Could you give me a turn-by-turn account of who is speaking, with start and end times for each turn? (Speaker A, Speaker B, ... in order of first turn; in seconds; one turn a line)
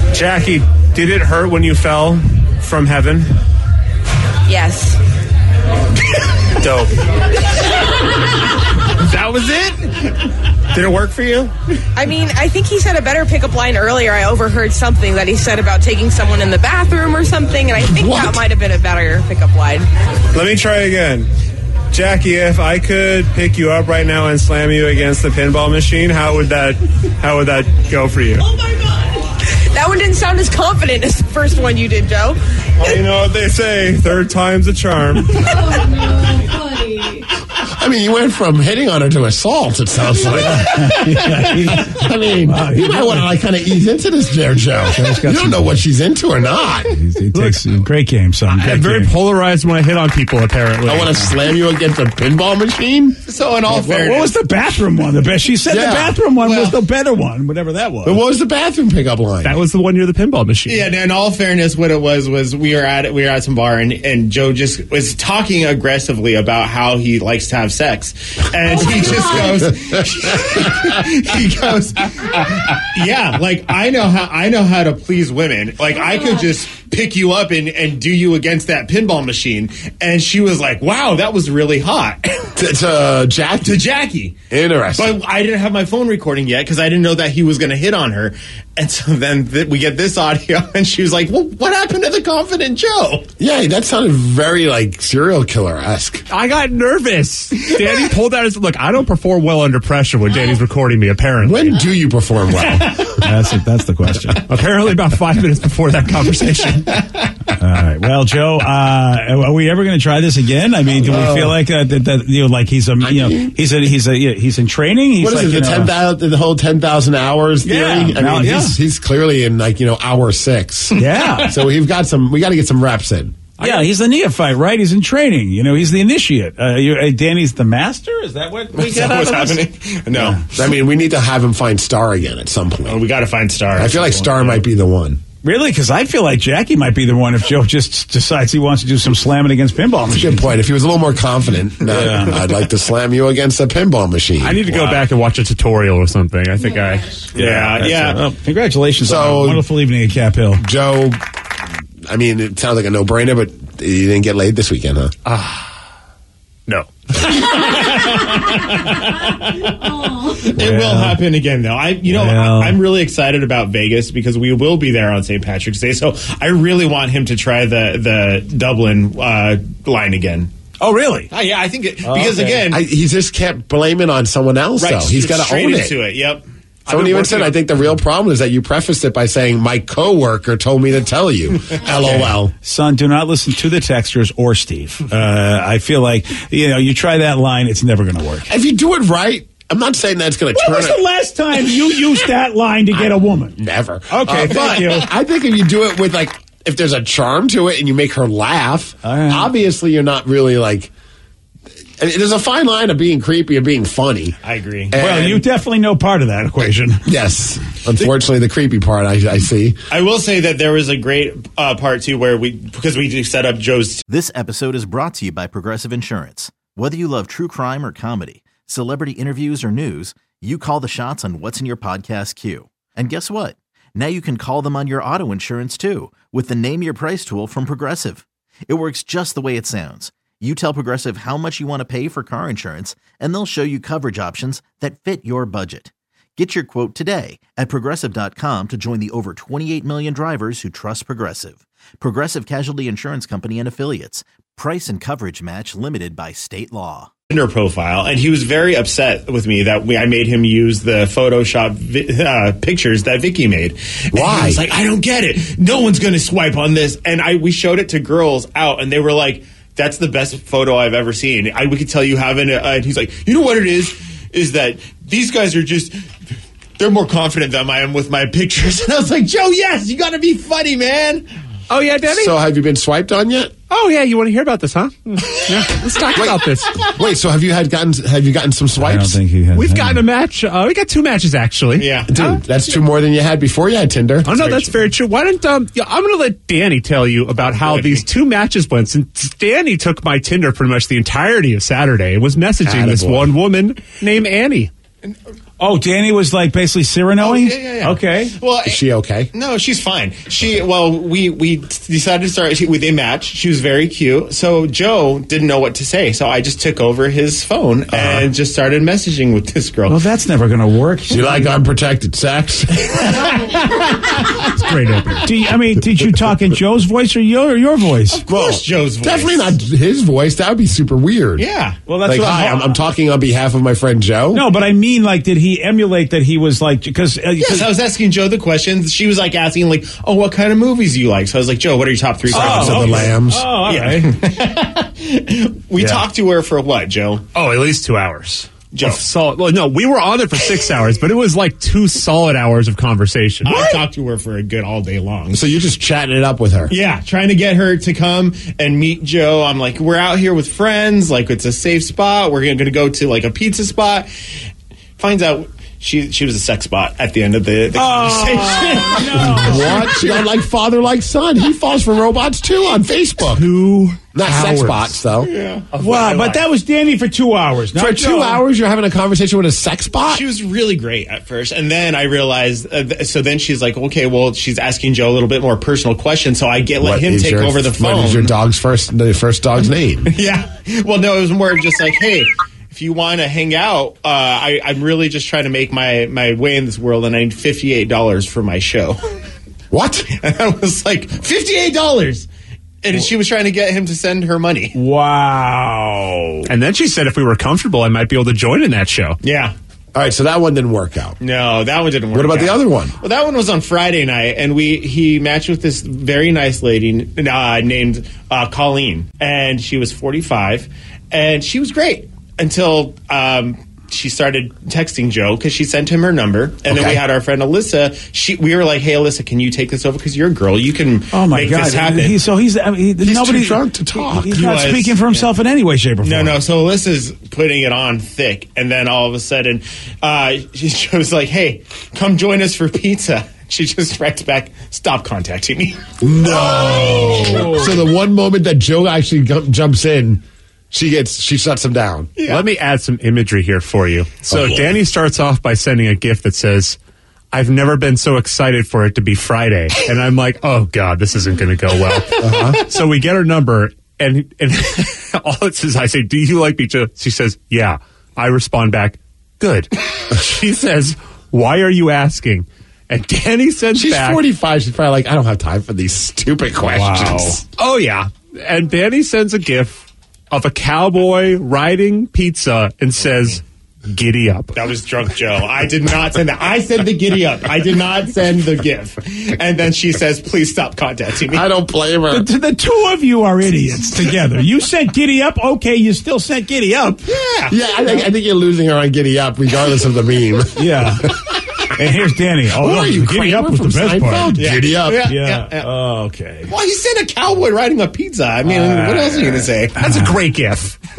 Speaker A: 0.2-0.6
Speaker B: 0.9-3.1
Speaker C: 4.5-5.0
Speaker D: 8.9-11.5
Speaker C: 11.9-19.9
Speaker A: 20.3-21.3
Speaker A: 21.9-23.8
Speaker B: 22.8-28.4
Speaker C: 28.4-32.9
Speaker B: 32.9-35.3
Speaker C: 35.4-37.2
Speaker E: 37.6-47.0
Speaker F: 40.4-43.3
Speaker F: 44.9-45.8
Speaker F: 46.9-49.1
Speaker B: 47.3-47.7
Speaker B: 48.5-51.2
Speaker E: 50.9-53.2
Speaker D: 53.3-54.4
Speaker F: 53.7-58.2
Speaker E: 55.7-56.2
Speaker D: 56.3-56.8
Speaker E: 58.0-59.6
Speaker B: 59.4-60.9
Speaker D: 60.7-82.5
Speaker E: 82.6-83.8
Speaker D: 83.6-84.4
Speaker E: 84.5-85.2
Speaker D: 84.9-93.3
Speaker E: 93.4-96.2
Speaker B: 96.3-101.8
Speaker D: 97.6-98.1
Speaker E: 101.4-102.9
Speaker D: 102.7-103.0
Speaker F: 103.2-104.4
Speaker B: 104.5-107.0
Speaker F: 107.6-116.0
Speaker E: 111.0-111.6
Speaker E: 113.0-113.6
Speaker E: 115.2-123.4
Speaker F: 117.6-118.8
Speaker D: 121.0-121.5
Speaker F: 121.0-121.5
Speaker D: 123.6-123.9
Speaker F: 123.6-130.4
Speaker D: 128.7-130.6
Speaker E: 130.6-133.0
Speaker D: 132.8-134.7
Speaker E: 133.8-135.2
Speaker F: 135.4-140.5
Speaker E: 140.1-144.7
Speaker F: 141.9-142.4
Speaker B: 144.4-148.2
Speaker F: 144.7-145.1
Speaker D: 147.3-148.2
Speaker F: 147.7-150.6
Speaker E: 149.0-149.7
Speaker E: 150.6-151.2
Speaker E: 152.1-155.1
Speaker B: 155.3-155.8
Speaker D: 157.1-170.5
Speaker F: 160.6-161.2
Speaker F: 162.1-162.8
Speaker F: 170.8-171.3
Speaker D: 171.3-172.8
Speaker F: 172.0-172.6
Speaker E: 172.7-176.0
Speaker D: 174.8-177.6
Speaker E: 176.9-182.5
Speaker D: 181.9-182.3
Speaker F: 182.6-188.5
Speaker E: 188.5-191.0
Speaker F: 190.6-193.6
Speaker E: 192.9-200.9
Speaker F: 194.1-195.1
Speaker D: 194.3-195.1
Speaker F: 199.0-199.5
Speaker E: 202.0-205.4
Speaker D: 204.4-204.9
Speaker F: 205.0-207.0
Speaker E: 207.1-209.8
Speaker D: 209.9-214.0
Speaker G: 214.1-247.1
Speaker D: 247.3-265.9
Speaker E: 254.1-254.6
Speaker D: 266.8-271.3
Speaker B: 271.7-272.4
Speaker E: 272.1-273.5
Speaker B: 273.7-276.7
Speaker D: 275.4-276.0
Speaker E: 276.1-279.2
Speaker D: 276.6-276.9
Speaker F: 278.8-280.1
Speaker B: 279.5-282.4
Speaker D: 281.8-282.1
Speaker E: 282.1-284.5
Speaker B: 284.2-294.7
Speaker D: 284.4-284.7
Speaker D: 287.5-288.1
Speaker E: 292.6-293.4
Speaker F: 295.6-298.4
Speaker D: 297.2-298.8
Speaker E: 298.6-299.3
Speaker D: 299.3-310.1
Speaker E: 307.9-308.3
Speaker F: 309.9-311.3
Speaker E: 311.1-312.8
Speaker D: 312.8-315.0
Speaker B: 314.6-315.2
Speaker F: 315.2-318.2
Speaker D: 318.1-319.6
Speaker E: 318.3-321.5
Speaker D: 321.4-321.8
Speaker F: 321.9-322.8
Speaker E: 322.1-324.5
Speaker F: 324.3-327.7
Speaker D: 327.4-337.3
Speaker E: 332.3-333.5
Speaker F: 332.3-334.1
Speaker B: 335.8-336.1
Speaker B: 337.3-343.5
Speaker D: 338.7-339.0
Speaker D: 343.4-345.5
Speaker F: 343.5-343.8
Speaker E: 345.3-346.7
Speaker D: 346.7-354.1
Speaker D: 355.0-360.1
Speaker F: 357.7-360.0
Speaker E: 359.2-363.5
Speaker B: 363.3-365.1
Speaker E: 364.1-365.3
Speaker D: 365.2-366.5
Speaker F: 365.8-368.4
Speaker E: 367.8-370.2
Speaker D: 370.1-378.3
Speaker E: 376.8-380.1
Speaker D: 380.1-389.0
Speaker E: 389.7-390.1
Speaker D: 390.1-392.3
Speaker D: 392.8-394.8
Speaker F: 394.7-396.5
Speaker B: 396.5-399.2
Speaker D: 399.2-399.5
Speaker E: 399.9-401.2
Speaker D: 401.2-422.2
Speaker E: 402.1-402.9
Speaker E: 416.7-417.0
Speaker F: 421.1-426.4
Speaker E: 423.0-424.5
Speaker D: 424.3-425.3
Speaker D: 426.0-437.6
Speaker E: 436.0-442.2
Speaker D: 442.2-442.5
Speaker B: 442.4-446.8
Speaker E: 444.3-444.8
Speaker B: 447.3-464.2
Speaker E: 452.2-452.6
Speaker E: 463.7-467.4
Speaker B: 466.7-474.5
Speaker D: 474.5-481.5
Speaker E: 481.3-482.3
Speaker F: 482.1-487.1
Speaker D: 487.1-488.1
Speaker E: 487.5-491.3
Speaker F: 490.6-491.1
Speaker F: 491.7-494.5
Speaker E: 492.6-495.0
Speaker D: 494.4-495.7
Speaker F: 495.0-496.5
Speaker D: 496.5-499.9
Speaker F: 498.5-500.1
Speaker B: 499.8-500.8